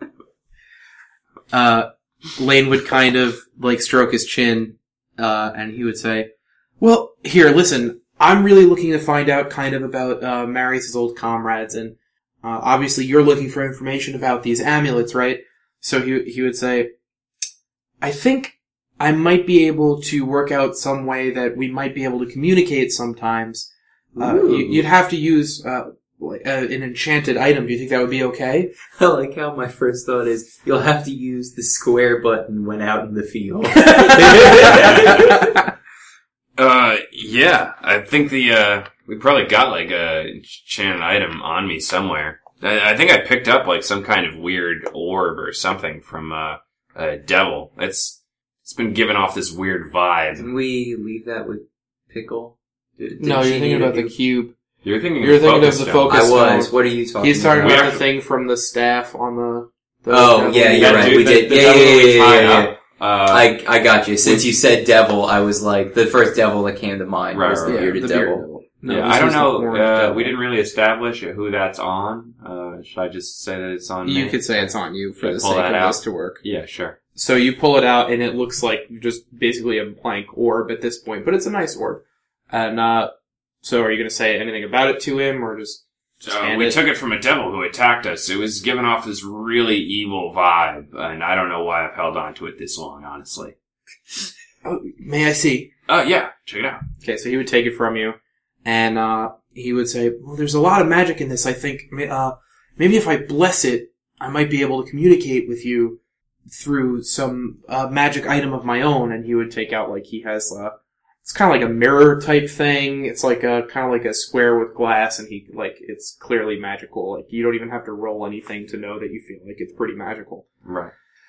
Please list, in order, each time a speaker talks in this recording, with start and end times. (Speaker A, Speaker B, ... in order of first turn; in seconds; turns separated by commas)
Speaker A: 1.5-6.3, Speaker A: 6.8-16.9, Speaker A: 18.0-28.7, Speaker B: 24.1-24.9, Speaker B: 29.0-35.6, Speaker A: 33.8-35.7, Speaker C: 34.6-35.4, Speaker C: 36.6-50.5, Speaker B: 50.4-54.1, Speaker A: 53.2-54.5, Speaker C: 54.8-56.2, Speaker A: 55.2-61.5, Speaker B: 56.1-57.8, Speaker C: 57.6-58.0, Speaker B: 60.1-68.4, Speaker C: 60.7-63.5, Speaker C: 67.3-68.0, Speaker A: 67.6-70.3, Speaker C: 68.8-74.4, Speaker A: 74.0-76.4, Speaker C: 75.2-77.0, Speaker A: 77.2-83.1, Speaker A: 83.6-86.8, Speaker C: 86.2-93.5, Speaker A: 94.6-95.7, Speaker C: 95.9-96.8, Speaker A: 97.0-110.7, Speaker A: 111.2-120.5, Speaker C: 120.6-120.9